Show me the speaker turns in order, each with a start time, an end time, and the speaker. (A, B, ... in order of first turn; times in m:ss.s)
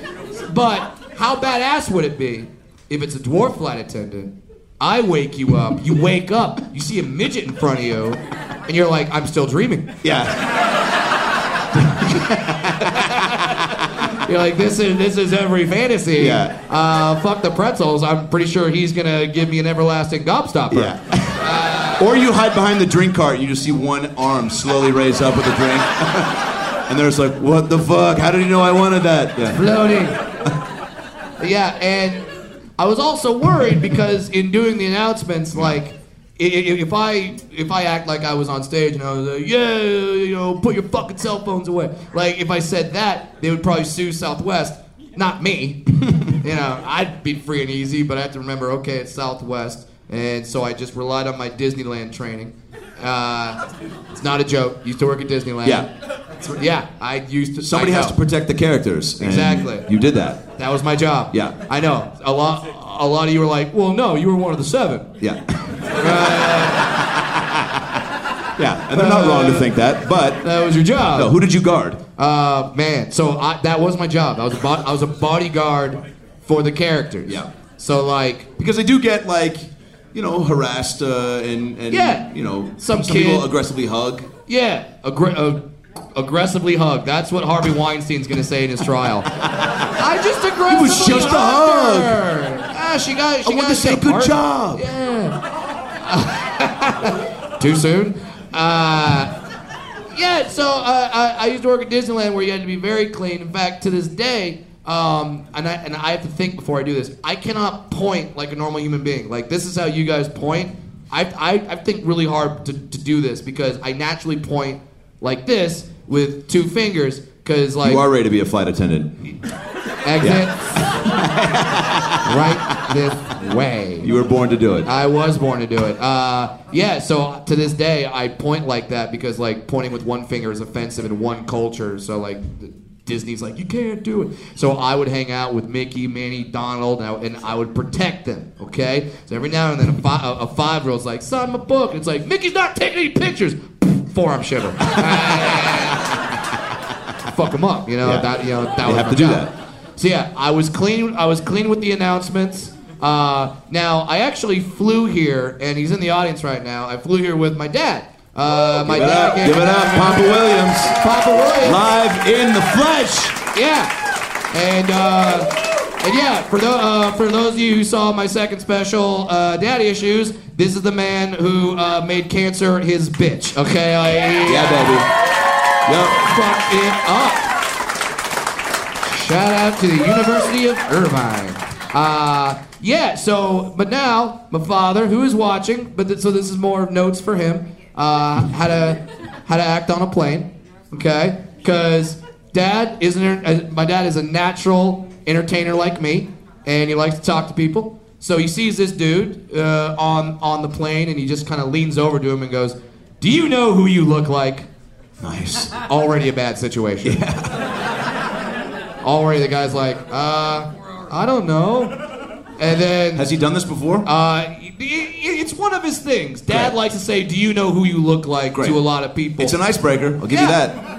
0:00.3-0:09.9 A
0:10.0-0:10.5 B
0:11.8-0:13.3 B
0:12.9-0:22.0 A
0:16.2-0:16.5 B
0:20.7-0:29.6 B
0:29.5-0:30.2 A
0:31.4-0:53.6 A
0:54.2-0:55.9 A
0:56.4-0:58.2 A
0:57.6-1:00.4 B
0:59.2-0:59.9 A
1:00.6-1:05.1 A
1:05.2-1:05.8 B
1:06.0-1:06.9 A
1:08.6-1:10.4 B
1:08.9-1:09.7 A
1:10.4-1:11.3 A
1:11.1-1:12.0 B
1:12.2-1:18.5 A
1:18.6-1:24.3 B
1:21.9-1:22.2 A
1:22.8-1:23.5 A
1:24.5-1:25.6 A
1:26.1-1:29.3 A
1:30.0-1:35.4 A
1:30.7-1:32.2 B
1:33.4-1:34.8 B
1:36.0-1:39.3 A
1:40.1-1:58.0 A
1:57.8-1:59.1 B
2:00.0-2:00.9 A
2:00.2-2:02.4 B
2:02.2-2:04.1 A
2:04.0-2:04.9 B
2:04.8-2:26.2 A
2:25.0-2:26.2 B
2:27.2-2:41.8 A
2:28.0-2:28.3 B
2:28.8-2:29.5 B
2:38.6-2:41.0 B
2:41.6-2:43.4 B
2:43.5-2:43.9 A
2:44.5-2:55.0 A
2:54.4-2:55.1 B
2:55.8-2:56.2 B
2:56.2-2:57.5 A
2:59.0-3:24.7 A
3:25.2-3:25.7 B
3:25.9-3:27.2 A
3:27.0-3:27.6 B
3:29.0-3:32.0 A
3:32.6-3:33.3 A
3:33.1-3:34.1 B
3:34.0-3:39.6 A
3:36.5-3:36.7 B
3:39.4-3:40.8 B
3:40.3-3:40.6 A